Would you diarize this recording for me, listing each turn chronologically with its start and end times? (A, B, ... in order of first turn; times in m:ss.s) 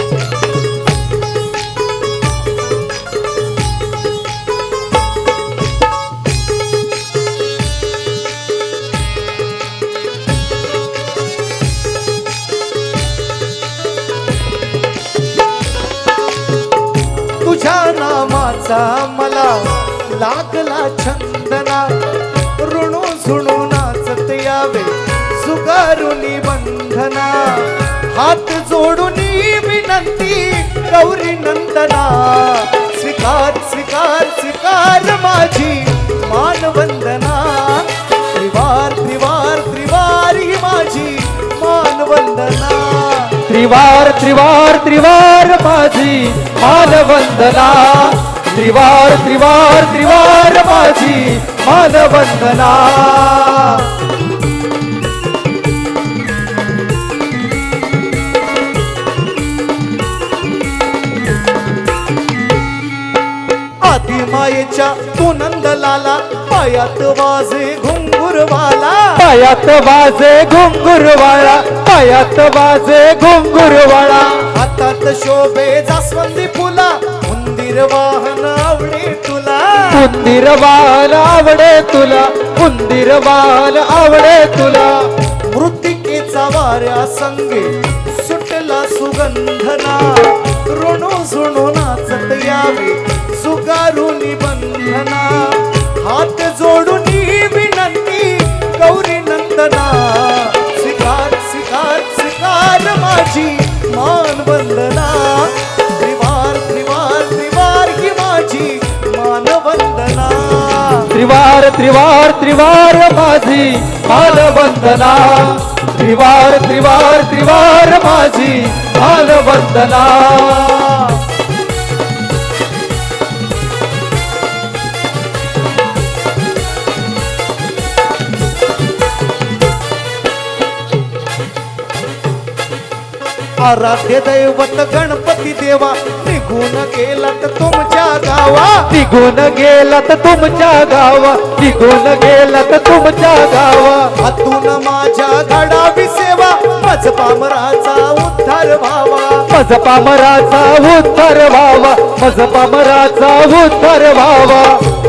0:17.4-0:43.4 A
0:43.4-0:54.0 B
1:03.8-1:09.3 A
1:09.2-1:14.5 B
1:14.4-1:20.1 A
1:19.9-1:25.1 B
1:25.5-1:51.1 A
1:51.1-2:01.2 B
2:13.6-2:18.9 A
2:18.9-2:24.1 B
2:24.2-2:29.5 A
2:29.5-2:34.9 B